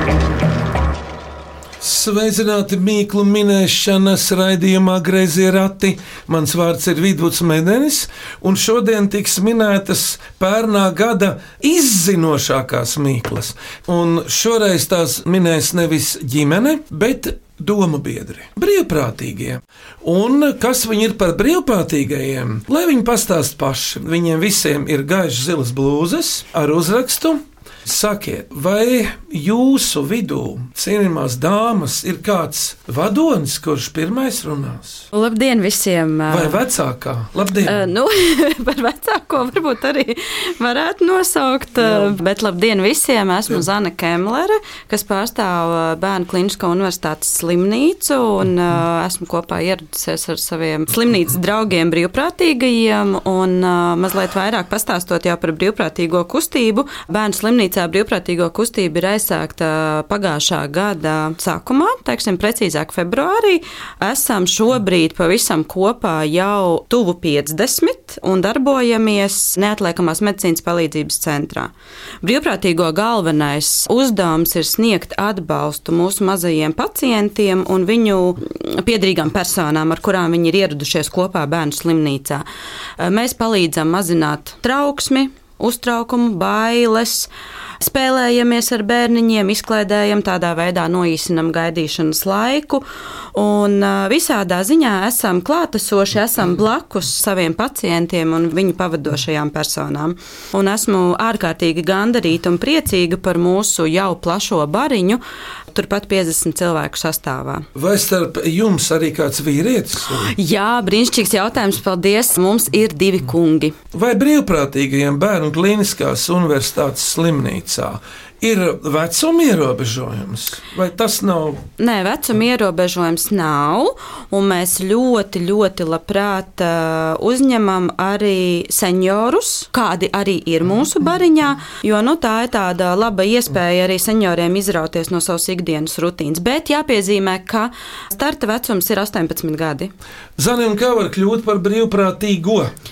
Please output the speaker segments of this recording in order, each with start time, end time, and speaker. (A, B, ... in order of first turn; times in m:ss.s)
0:01.8-0:35.1 A
0:35.1-0:36.6 B
0:36.3-0:37.8 A
0:37.6-1:11.7 B
0:41.8-0:42.1 A
1:12.2-1:22.4 B
1:23.0-1:32.8 B
1:33.3-1:45.2 B
1:45.7-1:47.6 B
1:47.7-1:50.3 A
1:50.3-1:53.7 B
1:53.9-2:01.6 A
2:01.8-2:19.9 B
2:20.4-2:22.7 A